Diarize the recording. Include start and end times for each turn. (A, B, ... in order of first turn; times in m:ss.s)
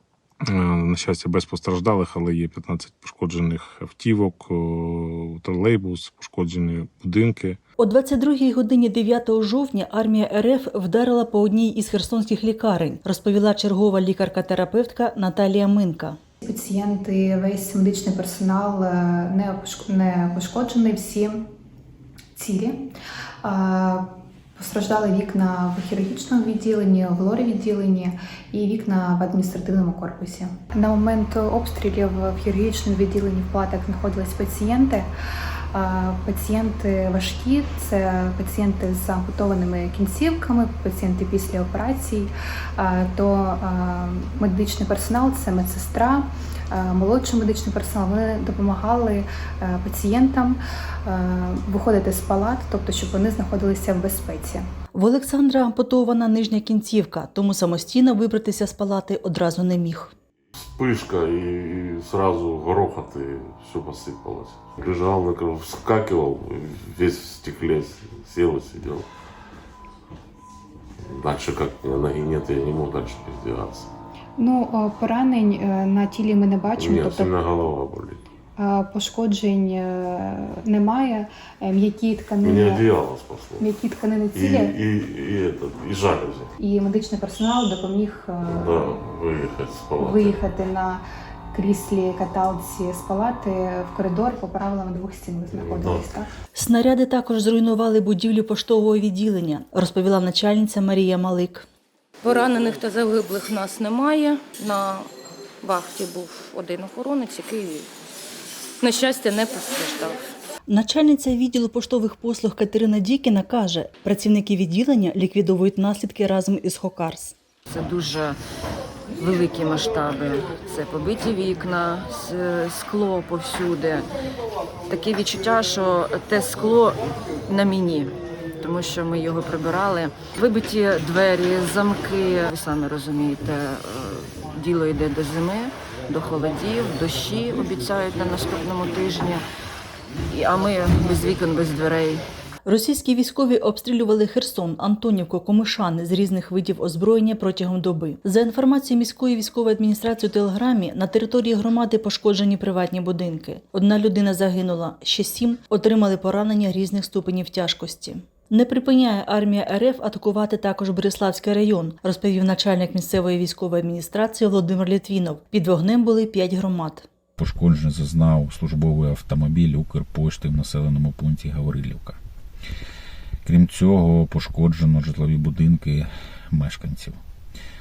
0:00.4-0:07.6 A
0:07.8-0:16.2 B
0:16.4-0:21.4 C
0:22.4-0:22.9 C
0:23.4-0:24.0 C
0:24.6-0:35.1 C
0:35.7-0:54.6 C
0:54.9-1:00.1 B
1:00.5-1:09.1 D
1:11.0-1:13.9 D
1:14.4-1:17.4 C
1:16.7-1:18.2 D
1:18.6-1:22.9 C
1:22.4-1:23.7 D
1:23.6-1:24.8 C
1:24.3-1:26.5 D
1:26.6-1:28.9 C
1:28.4-1:30.4 D
1:30.0-1:36.3 C
1:35.5-1:36.2 D
1:36.5-1:41.6 B
1:42.2-1:47.9 E
1:48.8-1:50.2 E
1:50.7-1:57.4 B
1:57.7-1:58.4 F
1:59.2-2:04.1 F
2:04.9-2:19.4 F
2:20.3-2:22.3 F
2:22.6-2:47.0 B
2:47.4-2:52.2 G
2:53.4-2:57.2 G